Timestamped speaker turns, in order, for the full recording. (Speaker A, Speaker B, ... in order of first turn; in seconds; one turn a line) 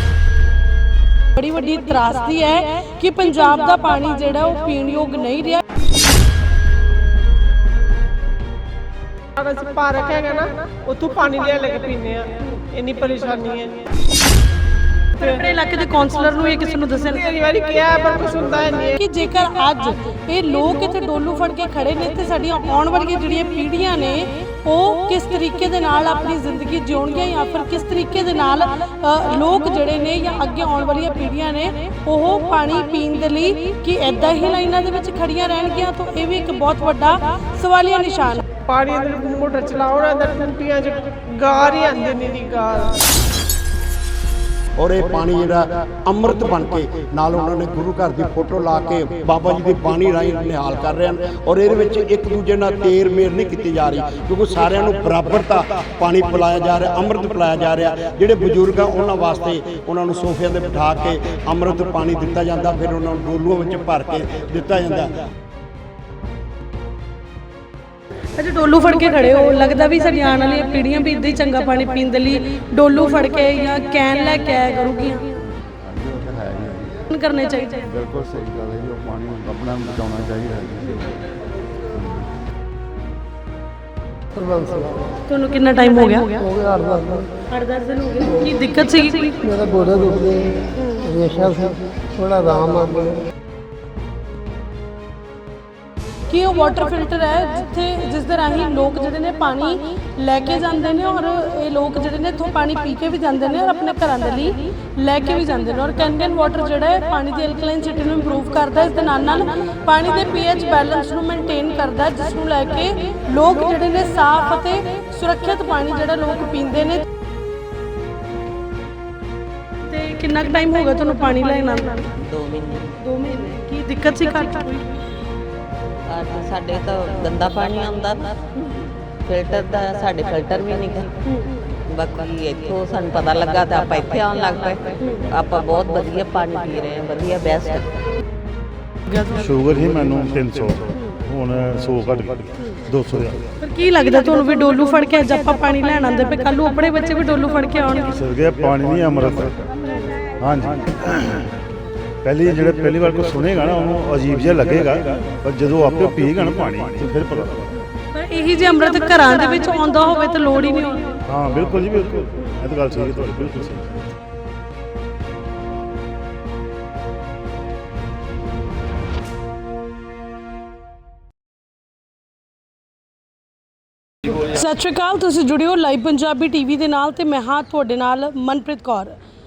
Speaker A: 1.4-5.6
Speaker B: 9.4-13.9
Speaker A: 15.2-17.4
Speaker B: 17.1-19.0
Speaker A: 18.1-38.5
Speaker B: 38.6-43.0
Speaker C: 44.8-65.2
Speaker A: 68.4-75.2
Speaker D: 75.5-77.0
Speaker A: 77.1-77.9
Speaker D: 77.9-81.2
Speaker D: 81.9-82.2
Speaker E: 84.3-85.1
Speaker A: 85.3-86.5
Speaker E: 86.2-87.3
Speaker A: 87.5-89.4
Speaker E: 89.4-93.2
Speaker A: 96.3-117.0
Speaker A: 119.9-122.1
Speaker F: 122.2-122.9
Speaker A: 123.0-124.9
Speaker F: 126.1-128.4
Speaker F: 129.2-131.2
Speaker F: 131.9-137.9
Speaker A: 139.1-139.4
Speaker G: 139.3-143.5
Speaker A: 143.6-148.1
Speaker G: 148.1-149.7
Speaker G: 150.4-151.5
Speaker G: 152.2-157.8
Speaker A: 158.1-161.2
Speaker G: 161.3-164.1
Speaker A: 174.5-179.2